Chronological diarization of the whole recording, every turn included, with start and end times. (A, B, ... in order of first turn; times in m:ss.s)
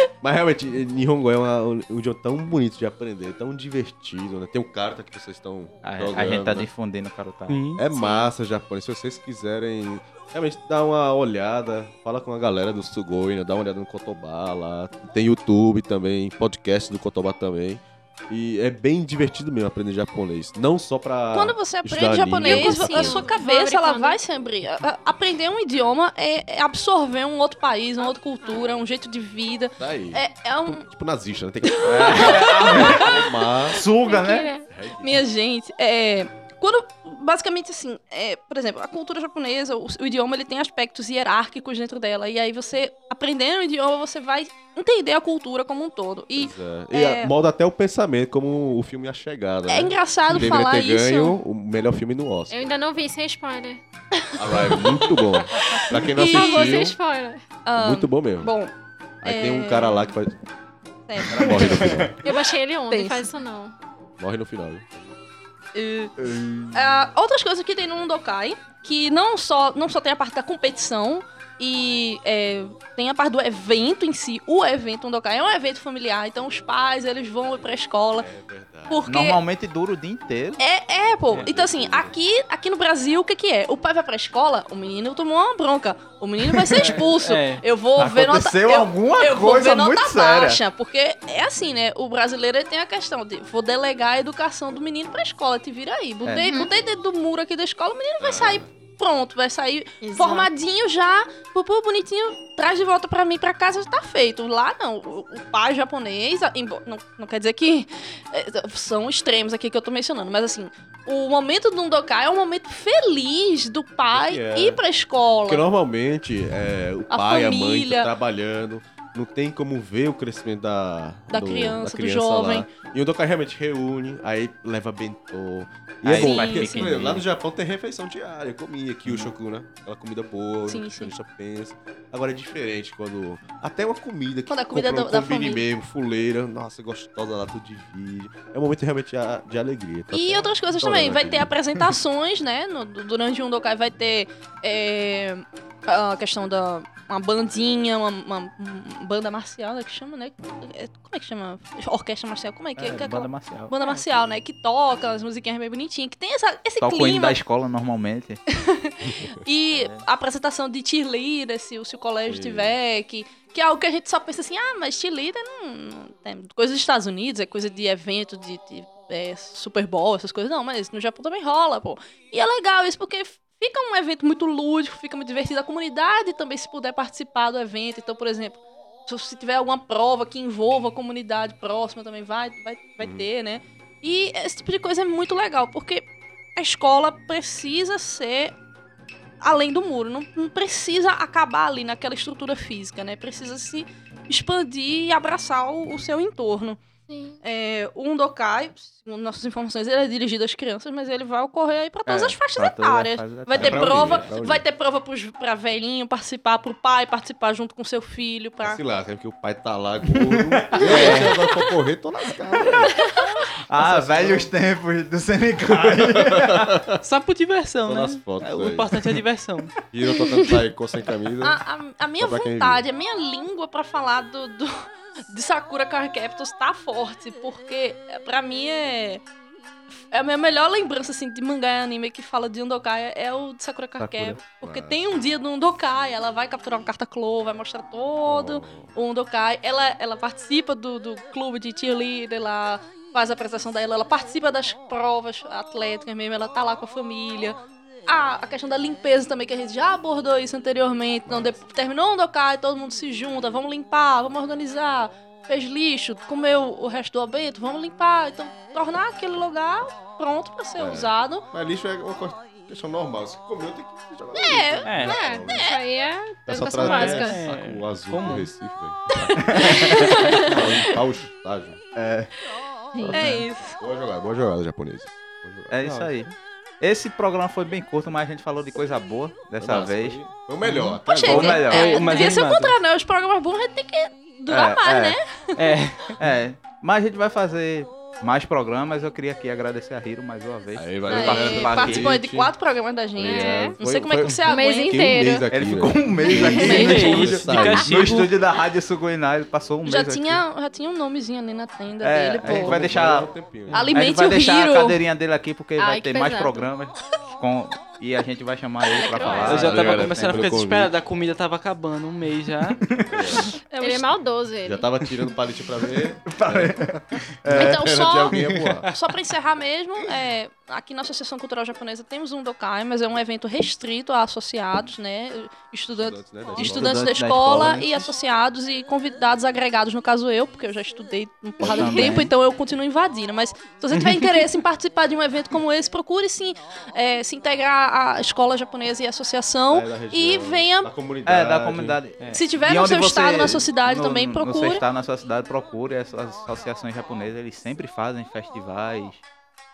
0:00.2-0:06.7 A
0:05.8-0:07.6 B
0:07.5-0:07.8 C
0:07.8-0:23.2 A
0:08.0-0:08.2 D
0:21.3-0:30.8 D
0:22.4-0:24.2 E
0:28.0-0:28.7 E
0:29.8-0:33.8 A
0:31.7-0:33.1 D
0:31.8-0:34.5 B
0:34.0-0:34.7 E
0:34.7-0:35.2 A
0:35.0-0:47.3 D
0:46.4-0:52.7 A
0:49.7-0:51.4 D
0:52.5-0:53.8 E
0:54.3-0:56.8 D
0:54.4-0:57.0 A
0:55.7-0:57.4 E
0:57.7-0:58.7 D
0:57.8-0:58.5 A
0:59.2-1:00.4 A
0:59.2-1:00.1 D
1:01.1-1:03.3 D
1:01.3-1:02.1 B
1:01.3-1:02.2 A
1:02.2-1:03.8 E
1:04.2-1:05.0 A
1:05.8-1:06.2 D
1:06.2-1:06.8 B
1:06.7-1:18.3 D
1:18.2-1:19.0 A
1:18.9-1:19.4 D
1:19.1-1:20.6 B
1:20.6-1:55.6 D
1:21.3-1:22.2 A
1:26.8-1:27.6 C
1:28.0-1:30.6 B
1:36.4-1:36.7 E
1:38.2-1:38.7 A
1:40.0-1:40.5 E
1:54.1-1:54.8 A
1:55.5-2:21.5 A
1:57.1-1:58.1 D
2:01.3-2:02.7 D
2:06.0-2:07.2 B
2:06.1-2:06.9 D
2:10.7-2:11.1 D
2:14.5-2:15.6 D
2:20.1-2:37.4 D
2:32.8-2:33.7 B
2:36.8-2:38.4 B
2:38.6-3:08.6 D
2:39.7-2:40.0 B
2:42.3-2:42.8 A
3:03.0-3:03.3 A
3:09.4-3:16.8 D
3:17.1-3:17.4 E
3:17.4-3:28.8 D
3:22.0-3:24.2 B
3:23.6-3:24.6 A
3:28.6-3:33.0 A
3:30.3-3:31.4 B
3:30.8-3:31.6 D
3:33.1-3:33.4 D
3:33.7-3:36.9 B
3:33.7-3:34.5 A
3:35.6-3:37.0 A
3:37.0-3:39.7 C
3:37.8-3:39.0 A
3:39.9-3:41.6 A
3:41.4-3:49.2 D
3:42.2-3:42.8 A
3:50.1-4:21.5 D
3:54.0-3:54.4 B
3:54.6-3:55.2 A
3:58.3-3:58.9 A
4:11.3-4:11.6 A
4:20.8-4:25.7 A
4:24.4-4:25.8 D
4:24.8-4:25.2 C
4:25.0-4:27.4 E
4:26.5-4:29.6 A
4:26.8-4:27.4 D
4:26.8-4:28.5 C
4:29.2-4:31.0 D
4:29.6-4:29.9 B
4:30.3-4:31.8 A
4:32.0-4:32.3 B
4:33.0-4:33.4 E
4:33.1-4:33.4 C
4:33.1-4:33.8 D
4:33.6-4:36.2 A
4:35.7-4:40.2 B
4:39.6-4:41.7 A
4:40.6-4:41.0 C
4:41.0-4:45.8 D
4:41.2-4:42.2 B
4:41.6-4:42.8 C
4:44.5-4:45.2 B
4:45.6-4:46.2 C
4:46.2-4:52.1 B
4:50.8-4:52.5 A
4:51.1-4:55.2 D
4:53.2-4:57.9 A
4:53.2-4:53.8 E
4:54.5-4:55.5 E
4:55.5-5:00.4 B
4:56.3-4:57.0 E
4:56.4-4:58.3 C
4:56.6-4:57.3 D
4:59.8-5:02.8 D
5:02.0-5:10.4 B
5:02.4-5:03.9 A
5:03.7-5:05.0 D
5:05.8-5:06.7 E
5:08.9-5:09.7 D
5:09.0-5:09.7 E
5:09.5-5:12.8 C
5:09.5-5:10.9 A
5:12.8-5:13.5 B
5:13.1-5:13.5 A
5:13.7-5:14.1 D
5:13.8-5:14.9 E
5:14.6-5:18.9 A
5:16.3-5:17.8 B
5:17.6-5:18.4 D
5:18.3-5:18.8 B
5:18.9-5:40.9 D
5:25.9-5:27.0 A
5:26.6-5:28.1 B
5:31.6-5:32.2 E
5:31.6-5:32.3 B
5:39.7-5:42.0 A
5:41.3-5:49.2 B
5:42.3-5:44.8 D